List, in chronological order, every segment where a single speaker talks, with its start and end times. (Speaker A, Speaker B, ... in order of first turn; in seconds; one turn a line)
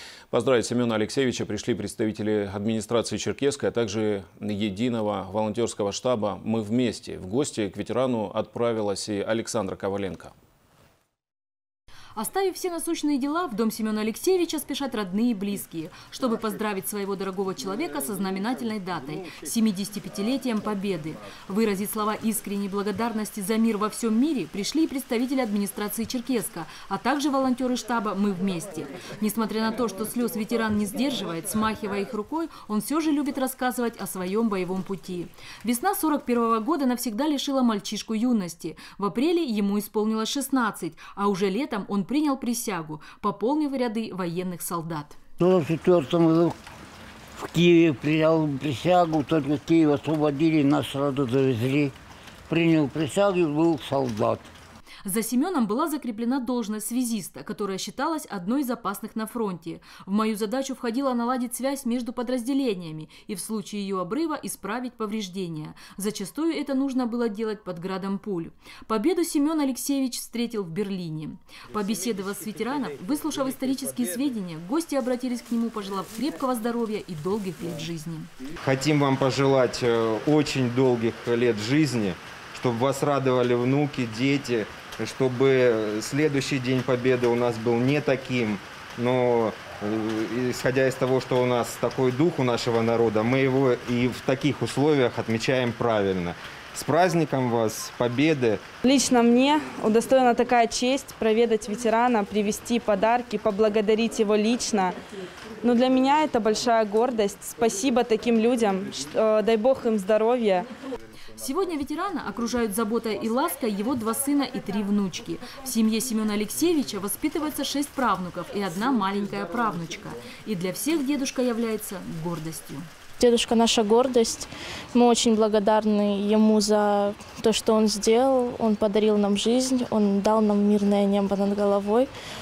Speaker A: 0.3-10.3
Speaker B: 12.2-45.2
Speaker C: 45.4-46.6
Speaker C: 47.4-51.9
Speaker C: 52.5-54.5
Speaker B: 55.0-78.3
Speaker D: 78.6-98.6
Speaker E: 98.8-105.0
Speaker E: 105.6-110.7
Speaker B: 111.4-122.9
Speaker F: 123.2-132.1